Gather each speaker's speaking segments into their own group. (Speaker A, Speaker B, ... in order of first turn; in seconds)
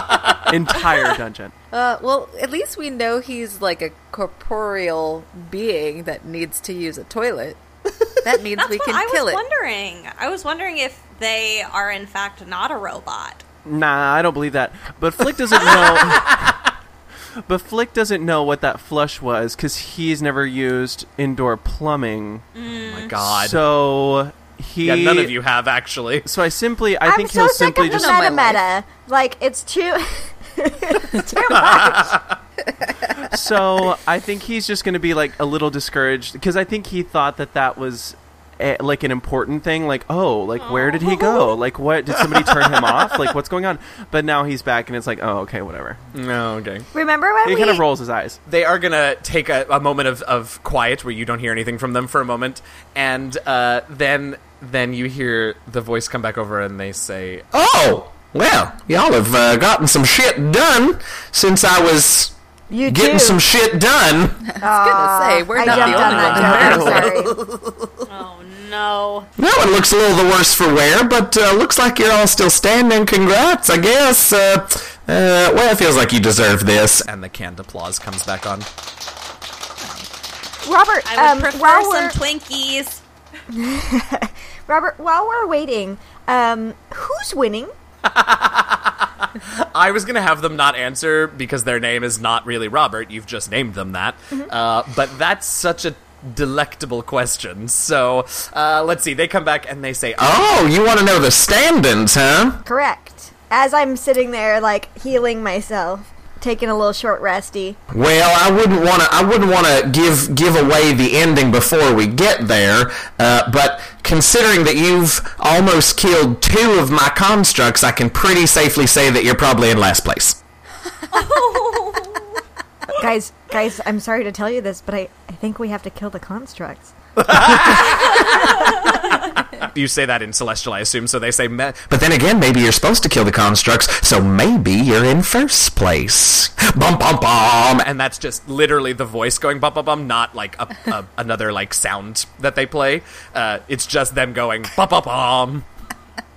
Speaker A: 0.5-1.5, 13.6-16.6, 17.4-22.4, 23.2-25.4, 26.2-28.3, 33.2-46.0, 47.4-48.4
Speaker B: 1.7-7.6, 8.2-9.4, 64.5-67.2, 79.8-80.1
Speaker C: 8.6-13.4, 22.5-23.2, 27.8-28.6, 40.6-41.4, 68.1-69.3, 81.0-83.0, 121.1-122.4, 128.2-129.0
Speaker D: 22.7-23.7, 24.8-26.3, 31.5-32.3, 42.3-43.3, 46.1-46.9, 48.5-57.5, 65.6-67.5, 77.0-78.7, 88.0-100.4, 127.2-131.9, 137.8-145.7
Speaker E: 27.0-32.1, 46.9-47.8, 62.7-63.4, 64.6-67.4, 80.6-82.2, 83.5-87.7, 102.6-107.8, 122.9-126.9
Speaker F: 57.5-62.3, 62.9-64.5, 69.4-77.0, 100.2-102.6, 107.9-120.4, 131.9-137.8